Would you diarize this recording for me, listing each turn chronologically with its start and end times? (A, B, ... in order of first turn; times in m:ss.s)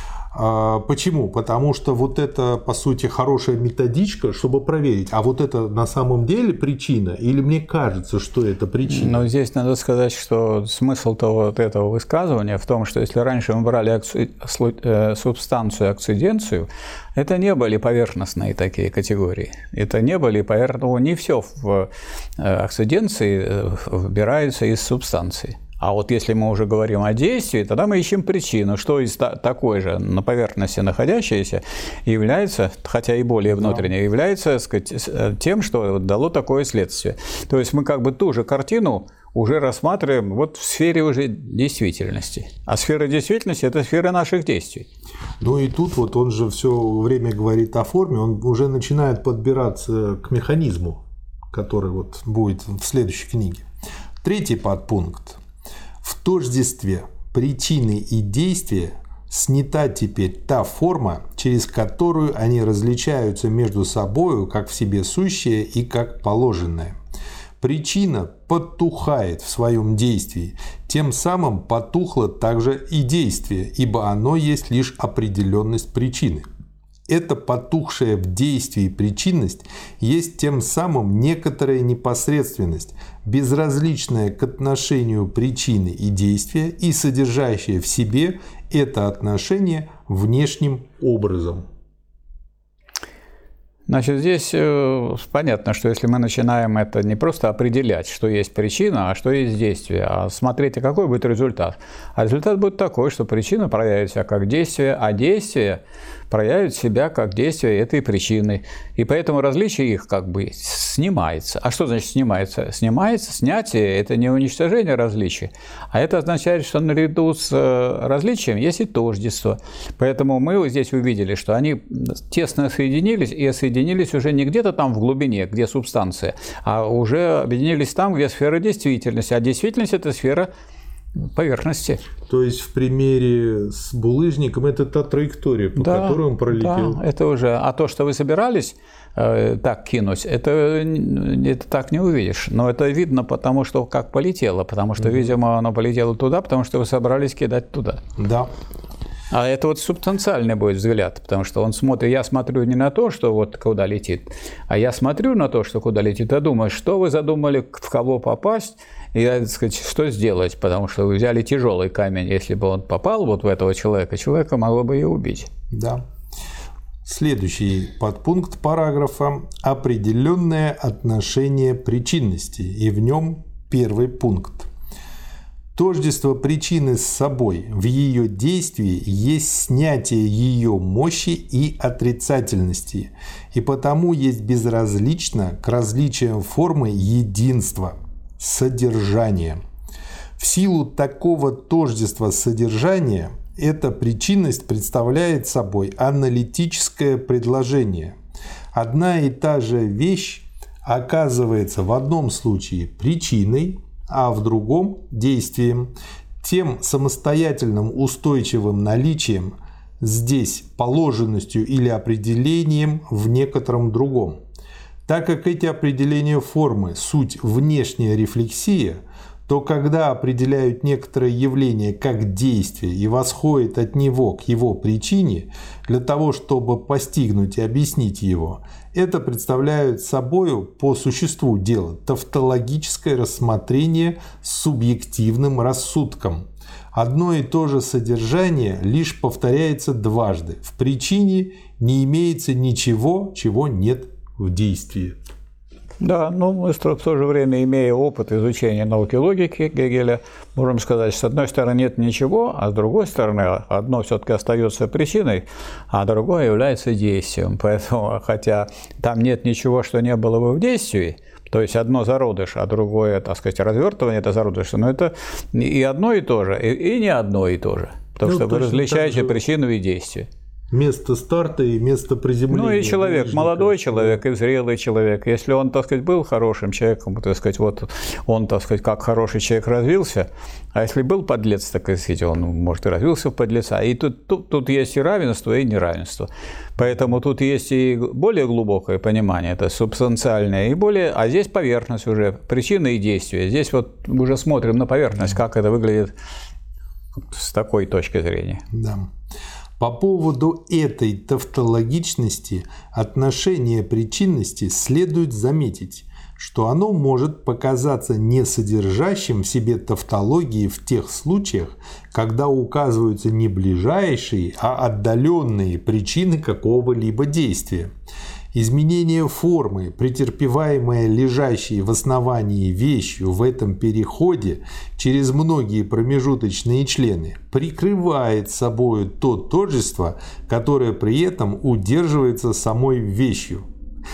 0:00.3-0:09.3 A
0:08.9-0:44.9 B
0:33.5-0:33.9 A
0:45.4-0:53.6 A
0:54.2-0:55.4 A
0:56.0-1:07.0 A
1:07.6-1:16.4 A
1:17.1-1:31.6 A
1:33.9-2:10.5 B
2:11.2-2:12.0 B
2:12.3-2:17.0 A
2:15.8-2:28.0 B
2:28.2-2:28.5 A
2:29.3-2:45.5 B
2:45.7-2:46.0 A
2:47.0-2:54.7 A
2:55.8-3:09.6 A
3:10.4-3:18.2 A
3:18.7-3:34.4 A
3:35.1-4:05.2 A
4:06.0-4:30.3 B
4:28.2-4:29.4 A
4:30.7-4:34.2 A
4:32.5-4:56.1 B
4:57.2-4:58.6 B
4:58.7-4:59.1 A
4:59.8-5:17.9 A
5:18.5-5:33.6 A